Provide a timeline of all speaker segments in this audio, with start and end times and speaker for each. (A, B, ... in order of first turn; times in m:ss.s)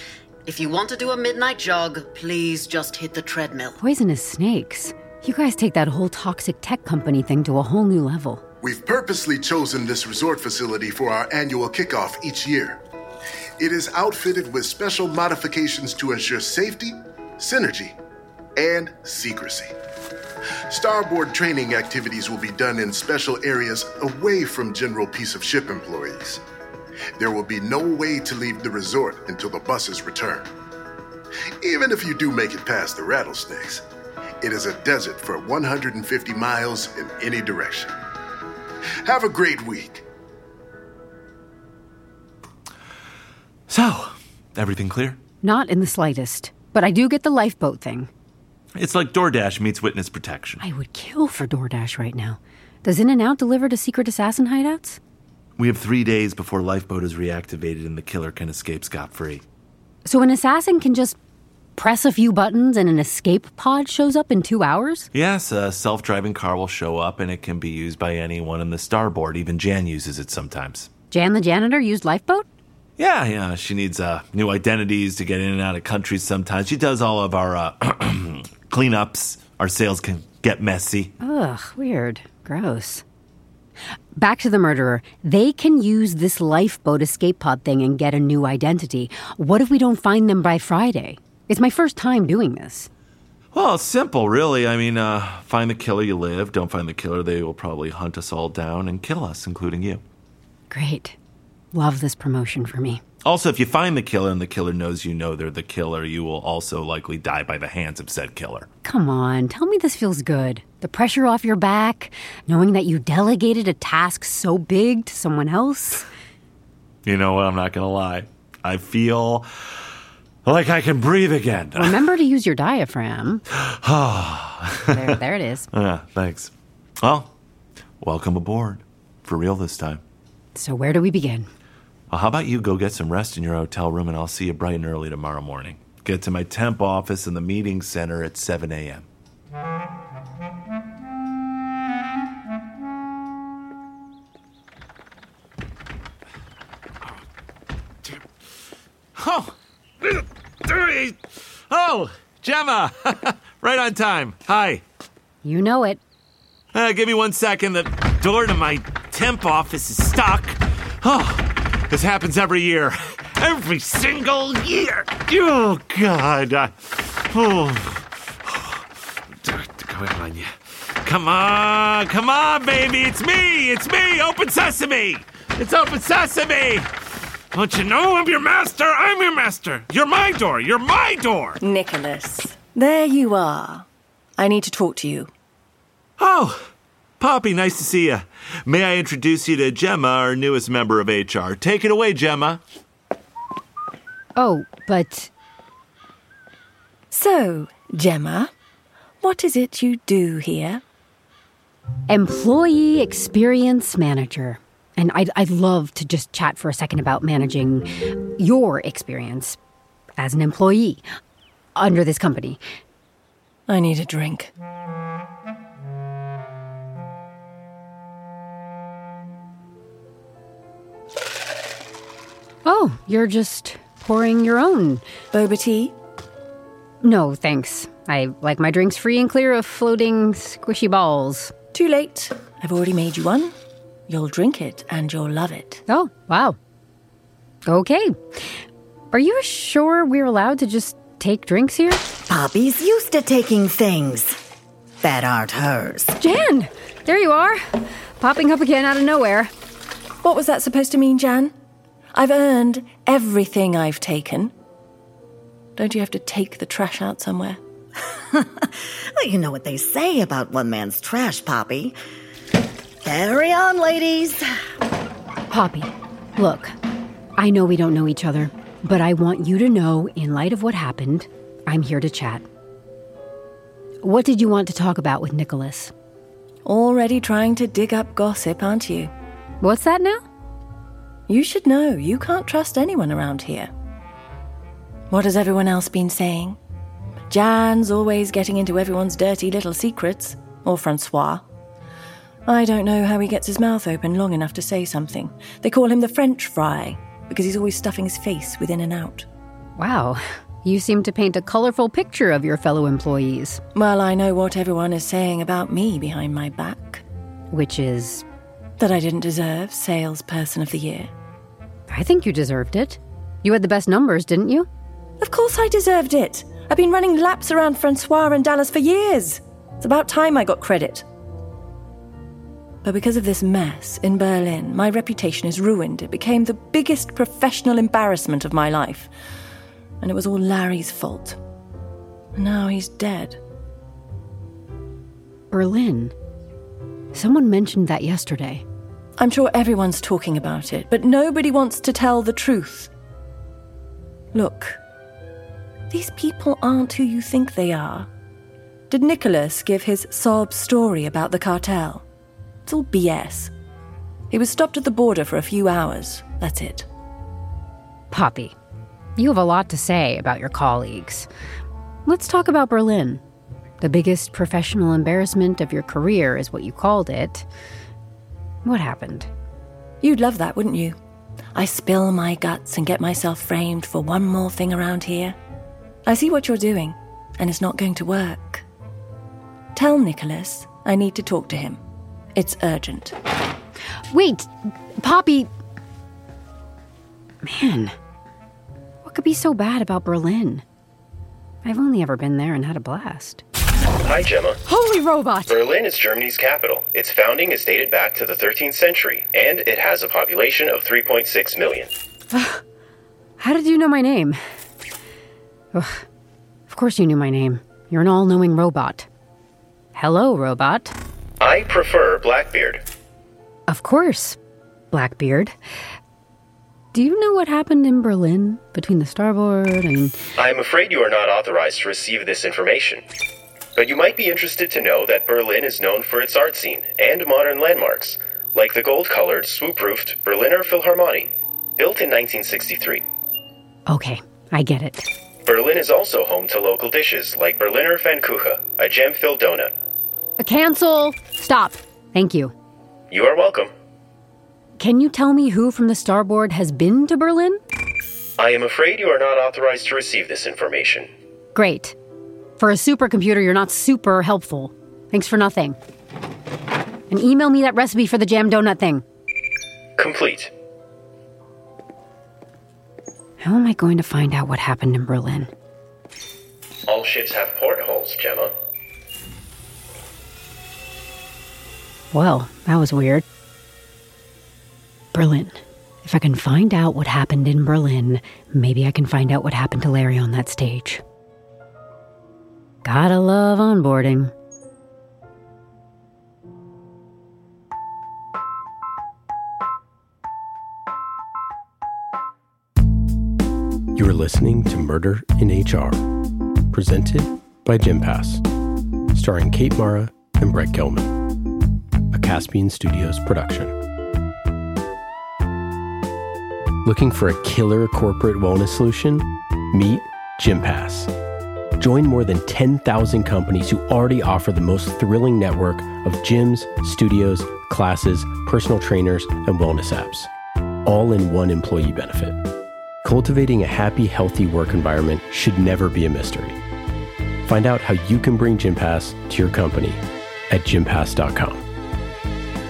0:00.4-0:03.8 A
0:03.8-0:08.4 B
0:08.6-0:12.8 C
0:13.6-0:18.0 C
0:18.6-0:19.7 C
0:20.7-0:26.4 C
0:27.2-0:30.5 C
0:31.6-0:33.8 C
0:34.4-0:37.9 C
0:39.0-0:40.0 C
0:43.7-0:45.2 D
0:45.4-0:48.1 B
0:48.8-0:50.6 D
0:50.6-0:55.0 B
0:55.6-0:59.4 D
1:00.0-1:01.2 B
1:01.8-1:05.1 B
1:05.1-1:10.9 D
1:11.1-1:12.4 B
1:13.0-1:21.1 D
1:21.2-1:23.0 B
1:24.1-1:32.9 B
1:33.5-1:40.0 D
1:40.7-1:41.2 B
1:41.7-1:43.0 B
1:43.2-1:48.7 D
1:48.8-1:56.1 B
1:57.0-1:59.5 D
2:00.4-2:02.0 D
2:01.8-2:03.4 B
2:03.5-2:05.2 D
2:04.9-2:05.7 B
2:05.7-2:06.5 D
2:07.0-2:07.3 D
2:08.0-2:10.0 D
2:10.5-2:11.5 B
2:12.1-2:19.0 D
2:29.2-2:34.8 D
2:35.4-2:36.0 B
2:36.7-2:48.8 D
2:49.4-2:56.9 D
2:57.5-3:01.6 D
3:01.6-3:03.9 E
3:04.4-3:05.3 E
3:06.2-3:06.6 D
3:07.2-3:12.6 D
3:14.4-3:15.3 B
3:17.1-3:18.5 E
3:19.2-3:20.8 E
3:22.1-3:29.6 B
3:30.2-3:31.0 B
3:31.8-3:32.6 B
3:33.7-3:34.5 E
3:42.6-3:45.0 B
3:45.3-3:45.9 E
3:47.0-3:51.5 B
3:51.7-3:53.5 E
3:54.1-3:55.8 E
3:55.9-3:56.6 B
3:57.6-3:58.5 B
3:59.1-4:02.1 B
4:02.3-4:04.4 F
4:05.0-4:06.1 F
4:06.2-4:09.5 B
4:10.2-4:11.5 E
4:12.1-4:14.5 E
4:15.8-4:17.6 E
4:18.3-4:22.0 F
4:23.0-4:24.5 F
4:25.5-4:26.8 B
4:27.4-4:32.4 B
4:34.0-4:35.9 B
4:36.6-4:39.1 E
4:39.6-4:40.2 B
4:41.3-4:43.7 E
4:45.1-4:46.6 E
4:47.3-4:51.4 E
4:52.4-4:59.2 E
4:59.8-5:03.6 B
5:03.7-5:07.0 E
5:07.5-5:08.2 B
5:08.8-5:11.1 E
5:11.9-5:14.7 B
5:15.2-5:21.0 E
5:22.8-5:29.1 E
5:30.0-5:31.4 E
5:32.4-5:33.4 E
5:35.5-5:36.1 B
5:37.1-5:38.6 B
5:39.2-5:42.9 E
5:44.3-5:44.8 E
5:45.9-5:48.1 E
5:48.9-5:52.0 E
5:52.6-5:53.5 E
5:54.3-5:56.9 E
5:58.1-5:58.5 B
5:59.2-6:01.3 B
6:02.0-6:03.2 B
6:03.8-6:07.5 B
6:08.6-6:09.3 B
6:10.0-6:11.0 E
6:11.5-6:15.4 E
6:16.0-6:18.6 E
6:19.7-6:21.8 E
6:22.3-6:23.1 E
6:24.1-6:25.5 B
6:27.4-6:27.9 B
6:29.0-6:30.6 B
6:31.6-6:33.4 B
6:34.0-6:34.6 G
6:34.7-6:35.6 B
6:35.5-6:41.9 G
6:42.3-6:42.6 B
6:43.4-6:44.4 B
6:45.7-6:46.0 B
6:46.7-6:49.1 B
6:49.9-6:50.9 B
6:51.4-6:52.8 G
6:53.7-6:54.4 B
6:54.9-6:55.6 B
6:56.9-7:00.2 B
7:00.4-7:03.0 G
7:03.7-7:13.0 G
7:13.9-7:15.1 B
7:15.4-7:19.7 G
7:20.4-7:22.5 B
7:23.1-7:23.7 G
7:24.8-7:27.6 B
7:28.4-7:31.1 G
7:31.5-7:32.0 B
7:32.6-7:35.8 B
7:37.1-7:39.0 B
7:40.0-7:40.5 G
7:43.4-7:45.5 B
7:46.9-7:48.5 G
7:52.1-7:53.2 B
7:55.1-8:01.0 B
8:02.8-8:04.3 B
8:13.9-8:16.0 H
8:16.7-8:18.4 H
8:19.1-8:21.1 H
8:22.1-8:23.7 H
8:26.8-8:31.1 H
8:31.8-8:40.3 H
8:40.8-8:42.4 H
8:43.0-8:46.6 H
8:47.4-8:51.6 H